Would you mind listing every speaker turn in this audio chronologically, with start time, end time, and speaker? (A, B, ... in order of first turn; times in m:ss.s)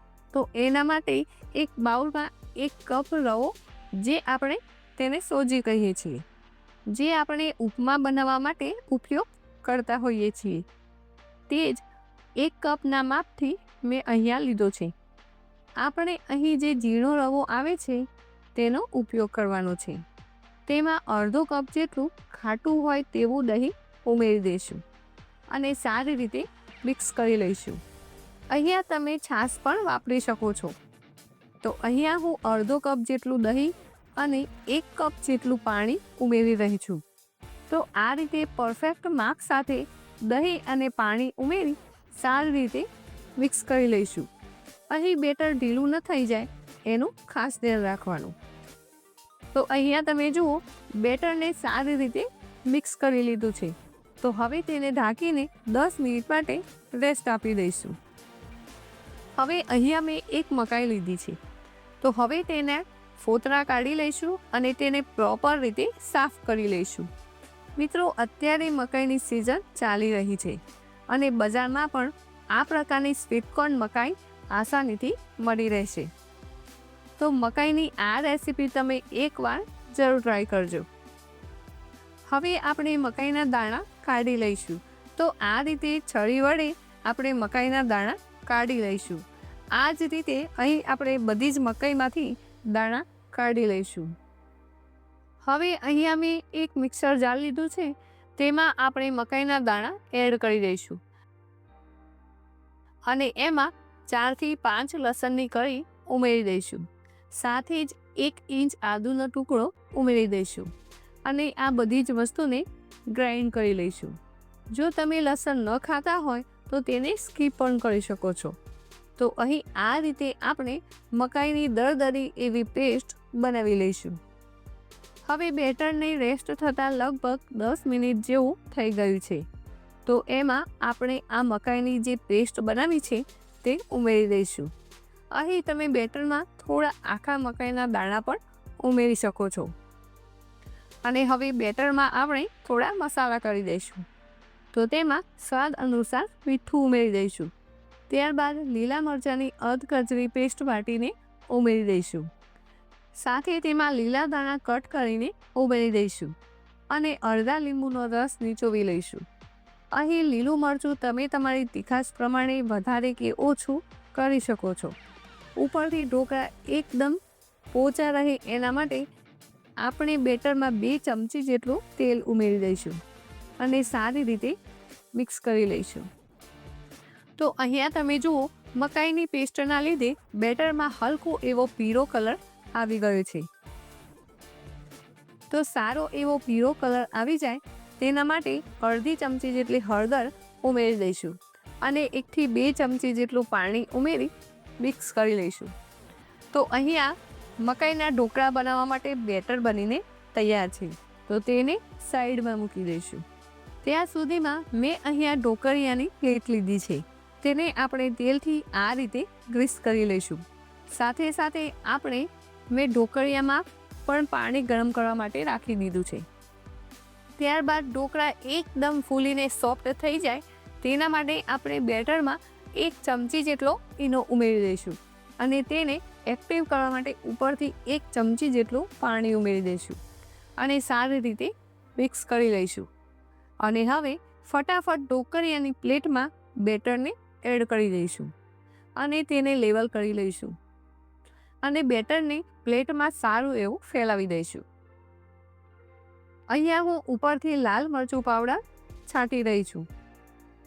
0:00.3-0:06.2 A
0:06.9-0:10.6 A
0:11.5-0:11.8 A
0:12.4-0:14.9 A
0:15.8-0:20.0 A
0:20.7-0:24.8 A
0:25.5-0:27.8 A
0:28.5-0:30.7 A
0:31.6-0:37.0 A
0:37.7-0:42.8 A
0:43.4-0:44.3 A
0:44.9-0:48.3 A
0:49.5-0:58.0 A
0:59.4-1:01.4 A
1:02.0-1:07.1 A
1:07.8-1:10.6 A
1:11.1-1:16.1 A
1:17.2-1:20.8 A
1:22.3-1:29.2 A
1:29.8-1:34.1 A
1:35.5-1:41.0 A
1:43.1-1:50.7 A
1:51.3-1:54.2 A
1:54.7-1:58.6 A
1:59.2-2:04.2 A
2:05.3-2:09.4 A
2:10.1-2:14.7 A
2:15.3-2:19.7 A
2:21.0-2:24.0 A
2:24.7-2:27.5 A
2:28.1-2:32.3 A
2:33.2-2:36.3 A
2:36.9-2:39.2 A
2:39.9-2:44.9 A
2:45.6-2:47.2 A
2:47.7-2:49.0 A
2:49.8-2:53.0 A
2:53.6-2:54.6 A
2:55.2-2:56.1 A
2:57.4-3:03.4 A
3:05.5-3:14.3 A
3:14.8-3:15.7 A
3:16.5-3:23.2 A
3:23.8-3:36.2 A
3:37.4-3:50.0 A
3:50.6-3:52.9 A
3:53.6-3:58.3 A
3:59.0-4:00.5 A
4:01.6-4:04.6 A
4:06.5-4:09.8 A